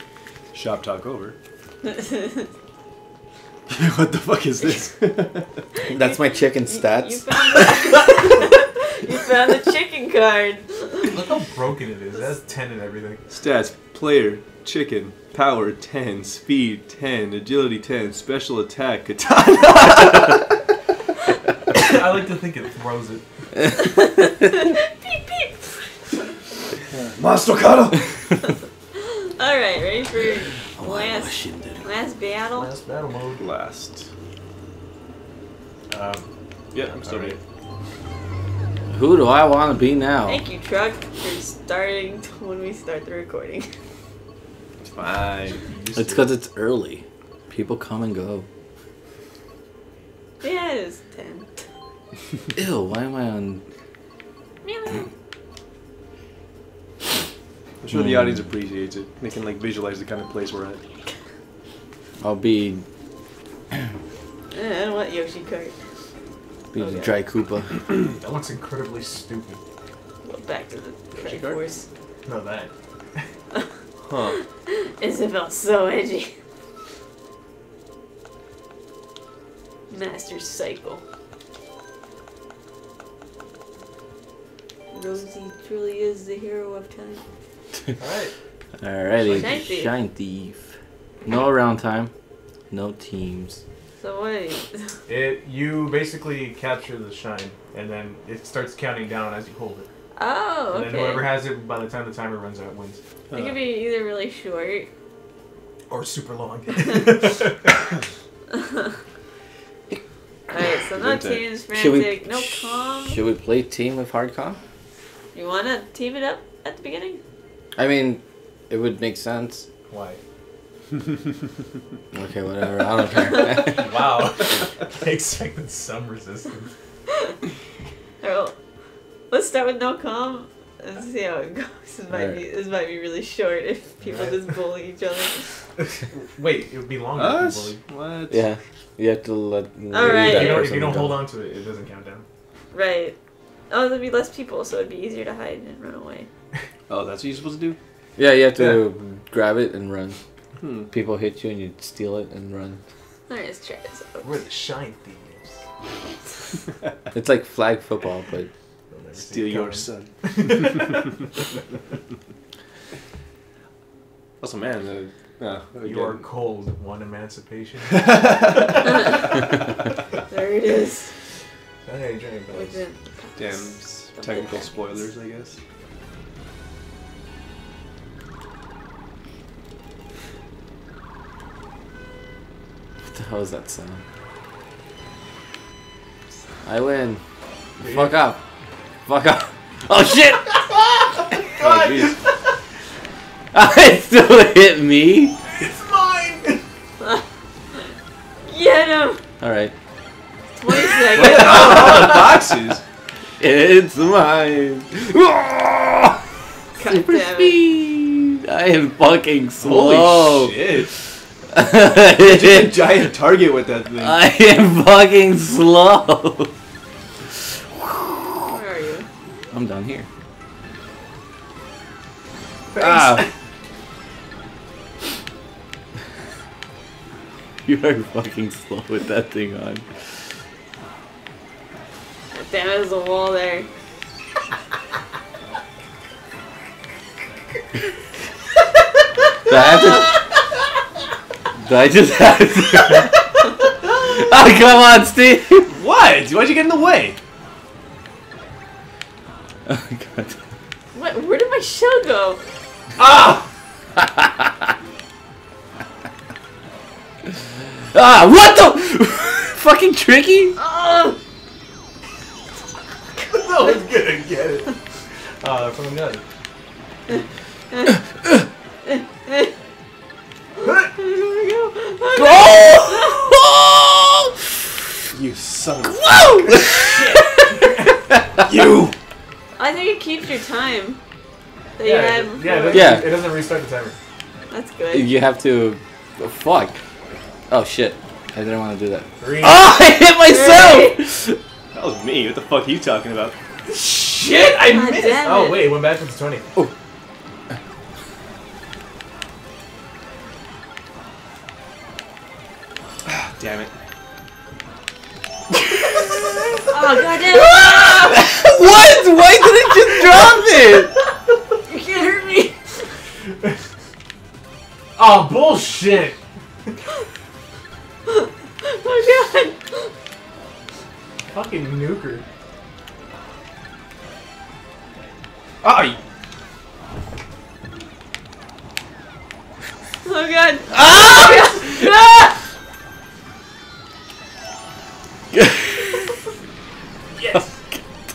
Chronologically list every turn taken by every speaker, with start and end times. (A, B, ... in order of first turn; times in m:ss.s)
0:00.5-0:01.4 A
0:01.8-0:02.5 B
0:03.7-0:05.5 A
0:05.9-0:07.6 C
0:06.7-0:11.1 B
0:11.1-0:13.2 D
0:13.3-0:20.5 A
0:21.8-0:23.2 D
0:23.8-0:26.0 B
0:26.9-0:28.1 A
0:29.0-0:32.7 B
0:30.8-0:31.8 C
0:32.5-0:33.4 D
0:33.4-0:34.1 A
0:35.9-0:36.3 D
0:36.7-0:37.4 A
0:37.0-0:37.4 D
0:38.9-0:40.4 C
0:40.3-0:43.7 B
0:44.8-0:46.0 A
0:45.9-0:46.2 D
0:46.0-0:48.5 C
0:50.4-0:51.6 B
0:52.6-0:53.6 C
0:54.6-0:55.1 B
0:57.8-1:00.8 A
0:57.9-0:58.3 C
1:02.2-1:02.8 C
1:04.5-1:05.8 B
1:06.7-1:07.8 C
1:06.8-1:07.1 B
1:08.0-1:09.6 D
1:10.2-1:11.8 B
1:11.2-1:11.6 A
1:12.3-1:13.2 D
1:14.0-1:14.4 A
1:14.2-1:16.3 B
1:19.9-1:21.0 B
1:24.9-1:27.2 B
1:28.0-1:28.3 D
1:28.8-1:30.7 C
1:29.3-1:29.9 B
1:31.2-1:32.1 C
1:32.7-1:33.6 C
1:34.0-1:35.0 B
1:35.1-1:39.9 D
1:40.2-1:41.4 B
1:40.7-1:43.0 D
1:43.3-1:43.6 A
1:43.3-1:44.9 B
1:45.9-1:47.7 D
1:48.5-1:48.9 B
1:50.5-1:53.2 B
1:50.9-1:51.4 A
1:51.7-1:54.6 C
1:55.3-1:57.2 B
1:57.8-1:59.7 C
1:59.9-2:00.2 D
2:02.1-2:03.9 C
2:03.5-2:06.7 D
2:08.2-2:08.6 B
2:09.3-2:15.4 B
2:12.1-2:12.4 C
2:14.0-2:14.5 D
2:15.8-2:17.8 D
2:17.2-2:18.4 A
2:18.3-2:21.2 C
2:19.9-2:20.7 B
2:20.0-2:22.2 D
2:22.7-2:23.2 B
2:23.7-2:26.3 B
2:26.9-2:27.8 A
2:28.2-2:30.2 C
2:30.6-2:30.9 A
2:30.9-2:32.8 C
2:33.3-2:34.4 B
2:34.2-2:35.6 D
2:37.1-2:38.5 C
2:38.9-2:41.1 D
2:39.2-2:41.0 A
2:44.4-2:46.2 A
2:45.8-2:49.3 D
2:48.0-2:48.6 A
2:50.3-2:51.1 B
2:51.8-2:52.8 D
2:52.5-2:55.0 B
2:53.4-2:55.6 A
3:03.0-3:04.0 C
3:06.6-3:07.2 C
3:07.8-3:08.4 C
3:07.8-3:08.1 D
3:09.1-3:10.7 C
3:10.6-3:12.2 D
3:11.3-3:12.2 C
3:13.5-3:15.4 C
3:15.5-3:16.6 D
3:18.5-3:19.2 B
3:19.4-3:19.7 C
3:20.6-3:22.1 B
3:21.0-3:22.8 A
3:21.4-3:22.3 C
3:23.4-3:26.2 C
3:26.8-3:27.6 B
3:26.8-3:30.6 C
3:29.6-3:30.9 A
3:31.5-3:33.1 C
3:32.2-3:34.2 A
3:34.0-3:36.5 C
3:37.8-3:38.3 C
3:38.5-3:39.1 B
3:39.5-3:40.1 C
3:42.7-3:43.3 D
3:42.8-3:43.2 C
3:47.6-3:49.9 C
3:52.3-3:53.7 B
3:59.5-4:00.1 C
4:01.6-4:03.1 C
4:03.9-4:05.7 C
4:05.7-4:07.2 A
4:09.7-4:10.4 C
4:10.9-4:12.4 B
4:14.0-4:14.5 C
4:17.9-4:20.6 C
4:20.6-4:21.2 B
4:23.3-4:24.7 D
4:25.4-4:26.2 D
4:27.1-4:28.0 B
4:28.8-4:29.5 B
4:30.6-4:30.9 D
4:31.0-4:33.3 B
4:32.2-4:34.9 C
4:35.1-4:36.1 A
4:35.8-4:38.4 C
4:36.6-4:38.0 D
4:38.4-4:39.0 A
4:39.6-4:41.0 B
4:41.8-4:43.0 B
4:41.8-4:44.0 D
4:42.7-4:43.2 C
4:44.5-4:45.1 B
4:44.9-4:46.8 C
4:47.5-4:51.4 C
4:49.2-4:49.7 D
4:50.2-4:51.0 B
4:51.7-4:53.4 A
4:53.7-4:56.5 D
4:54.7-4:55.8 B
5:03.1-5:03.7 A
5:05.8-5:06.2 C
5:06.7-5:08.3 B
5:07.3-5:10.9 C
5:11.6-5:12.6 B
5:15.0-5:16.2 D
5:18.1-5:19.9 B
5:21.3-5:22.2 D
5:25.6-5:26.0 A
5:30.0-5:32.4 B
5:30.7-5:31.9 C
5:35.3-5:36.1 C
5:37.2-5:37.5 D
5:37.3-5:37.8 C